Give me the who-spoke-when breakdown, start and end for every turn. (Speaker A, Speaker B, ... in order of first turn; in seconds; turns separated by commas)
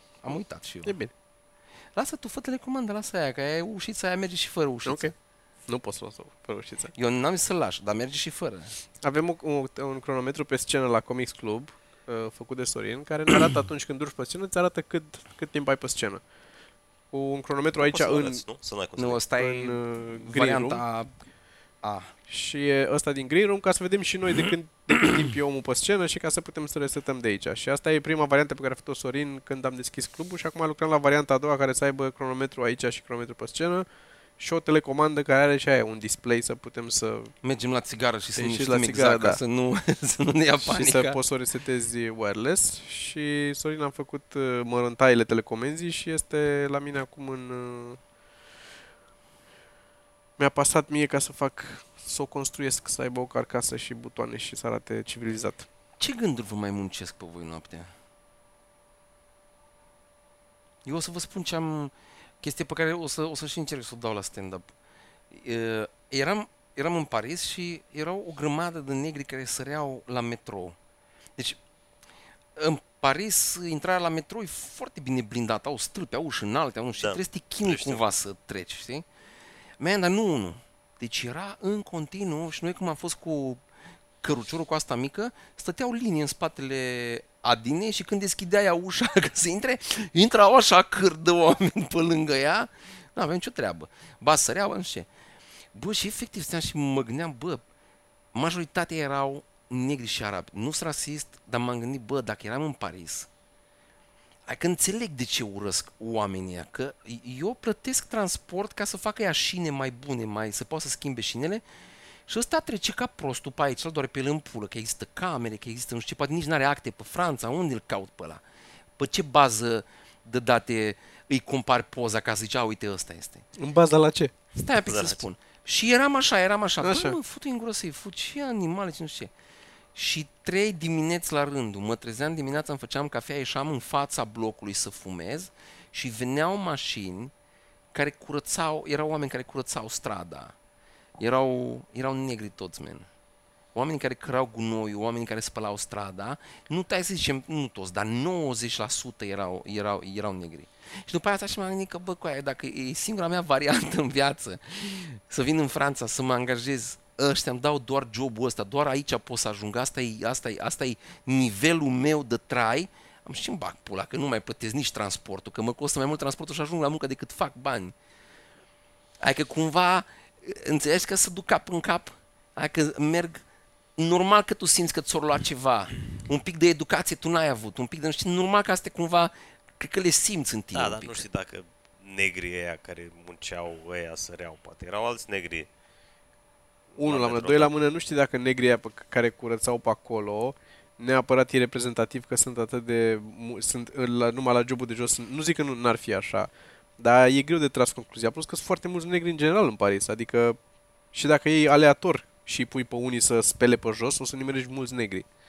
Speaker A: 0.2-1.0, Speaker B: 0.8-1.1, Speaker A: 1.9-5.1, Speaker B: 4.8-5.1, Speaker B: 5.7-6.9, Speaker A: 6.9-8.8, Speaker B: 9.0-16.2, Speaker B: 17.1-18.4, Speaker C: 17.8-19.2, Speaker A: 19.0-21.1, Speaker B: 19.4-20.8, Speaker A: 21.8-22.1, Speaker B: 22.3-33.9, Speaker B: 34.4-37.3, Speaker A: 37.4-41.2, Speaker B: 38.4-39.4, Speaker B: 40.6-48.0, Speaker B: 50.4-55.7, Speaker A: 56.0-57.9, Speaker A: 60.8-64.7, Speaker A: 65.3-70.8, Speaker A: 72.6-79.1, Speaker C: 77.0-78.0, Speaker A: 79.8-83.6, Speaker A: 84.2-95.1, Speaker A: 95.7-97.6, Speaker A: 98.3-103.3, Speaker A: 104.5-111.6, Speaker A: 112.3-118.4, Speaker A: 119.0-123.5, Speaker B: 123.6-124.3, Speaker A: 124.5-129.3, Speaker C: 124.8-125.2, Speaker B: 126.8-127.2, Speaker A: 129.9-137.3, Speaker A: 137.9-140.5, Speaker A: 141.2-143.1, Speaker A: 143.8-167.9, Speaker A: 169.2-173.4, Speaker A: 174.0-181.2, Speaker C: 180.7-185.7, Speaker C: 186.9-187.7, Speaker B: 187.0-200.6, Speaker B: 201.1-205.3